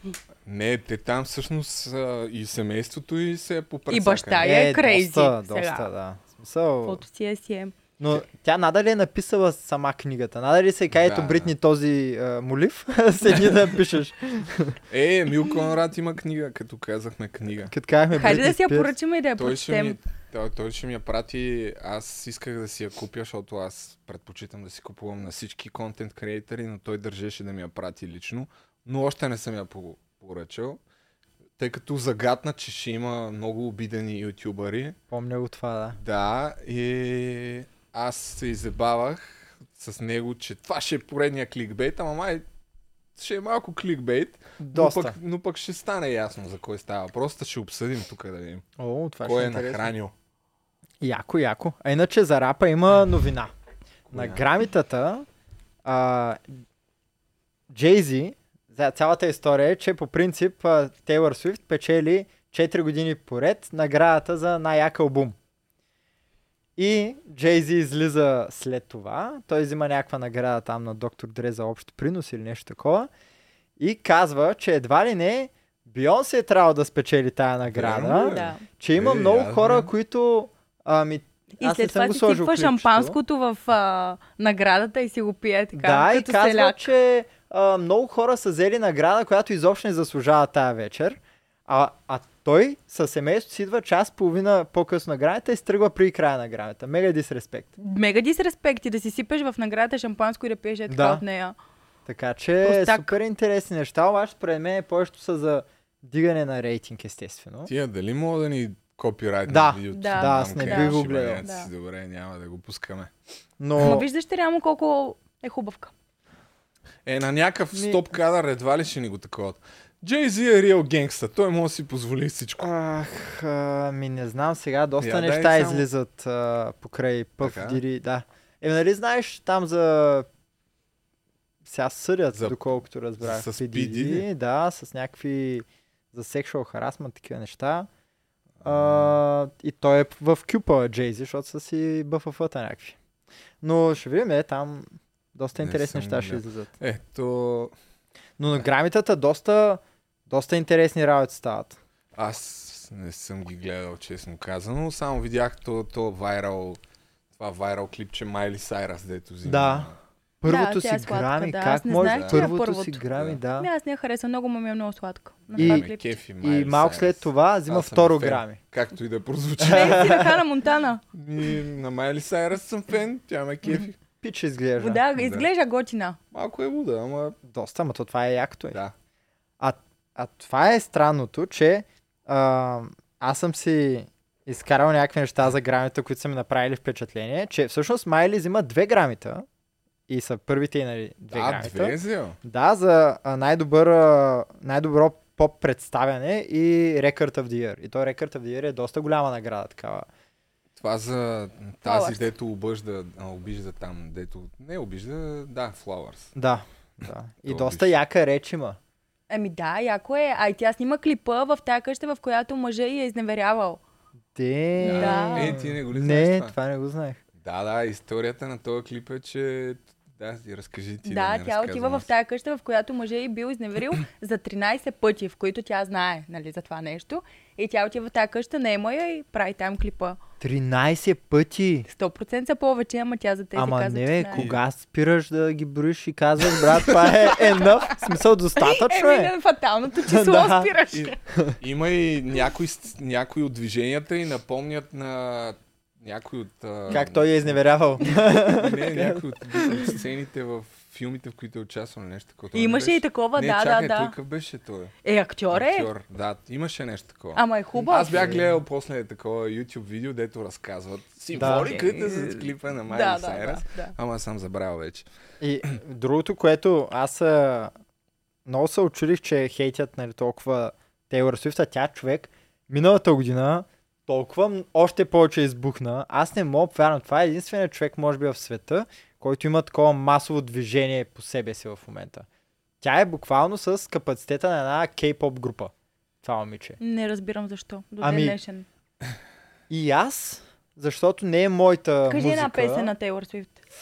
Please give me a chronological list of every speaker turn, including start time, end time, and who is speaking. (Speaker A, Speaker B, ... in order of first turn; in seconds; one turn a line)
Speaker A: 0.5-4.5
Speaker B: 3.9-5.9
Speaker C: 4.4-7.0
Speaker B: 6.8-7.8
Speaker C: 8.0-14.8
Speaker A: 10.9-11.5
Speaker A: 14.9-17.7
Speaker C: 17.7-18.9
Speaker B: 18.1-20.0
Speaker A: 19.4-30.8
Speaker A: 31.6-35.0
Speaker C: 35.1-36.0
Speaker A: 36.0-42.5
Speaker A: 43.1-48.6
Speaker C: 44.6-45.2
Speaker C: 48.8-49.9
Speaker A: 49.2-50.1
Speaker C: 51.0-53.5
Speaker A: 54.1-54.4
Speaker C: 54.1-55.3
Speaker C: 55.9-56.5
Speaker C: 57.7-65.4
Speaker C: 66.8-73.1
Speaker C: 73.8-83.2
Speaker A: 77.7-79.9
Speaker B: 78.2-78.6
Speaker B: 81.6-86.9
Speaker C: 85.7-97.7
Speaker B: 97.8-101.5
Speaker C: 100.9-101.2
Speaker C: 102.1-107.7
Speaker B: 102.6-103.2
Speaker A: 107.7-113.1
Speaker C: 109.5-111.4
Speaker B: 109.9-111.7
Speaker C: 113.6-114.1
Speaker B: 113.8-115.9
Speaker A: 117.1-122.7
Speaker C: 117.7-118.0
Speaker C: 122.6-130.3
Speaker A: 125.0-125.8
Speaker A: 127.4-127.8
Speaker C: 131.7-137.9
Speaker A: 132.3-134.3
Speaker A: 138.6-139.1
Speaker C: 138.6-143.0
Speaker C: 143.6-146.7
Speaker A: 145.6-147.8
Speaker C: 148.4-151.8
Speaker A: 152.2-156.8
Speaker A: 157.4-160.0
Speaker C: 159.4-163.7
Speaker B: 160.4-163.0
Speaker A: 161.9-162.4
Speaker B: 163.6-166.2
Speaker A: 165.5-170.2
Speaker C: 165.6-165.9
Speaker C: 166.4-168.6
Speaker B: 169.6-171.0
Speaker C: 169.6-170.3
Speaker A: 171.1-174.0
Speaker C: 174.2-175.0
Speaker B: 174.8-176.2
Speaker A: 175.2-175.5
Speaker A: 176.3-177.4
Speaker C: 177.4-178.8
Speaker C: 179.6-189.5
Speaker C: 190.1-200.1
Speaker A: 191.3-192.4
Speaker A: 200.8-206.3
Speaker B: 201.8-202.3
Speaker C: 206.3-208.8
Speaker A: 207.5-207.9
Speaker B: 209.3-213.8
Speaker C: 214.3-217.2
Speaker B: 214.8-215.6
Speaker A: 214.8-216.5
Speaker A: 217.4-222.1
Speaker B: 221.1-230.2
Speaker C: 230.4-231.9
Speaker B: 231.9-234.5
Speaker C: 233.6-239.3
Speaker A: 234.3-234.6
Speaker B: 238.6-241.2
Speaker C: 240.1-240.7
Speaker A: 240.9-254.9
Speaker C: 246.9-249.8
Speaker B: 252.5-254.1
Speaker B: 255.0-255.9
Speaker A: 255.5-265.1
Speaker B: 257.4-258.3
Speaker C: 258.1-258.6
Speaker C: 261.4-261.7
Speaker B: 261.4-263.9
Speaker C: 265.4-267.7
Speaker C: 268.5-282.3
Speaker C: 282.8-285.7
Speaker C: 286.2-286.8
Speaker B: 286.8-288.7
Speaker C: 288.0-288.4
Speaker C: 289.7-292.9
Speaker B: 292.1-293.6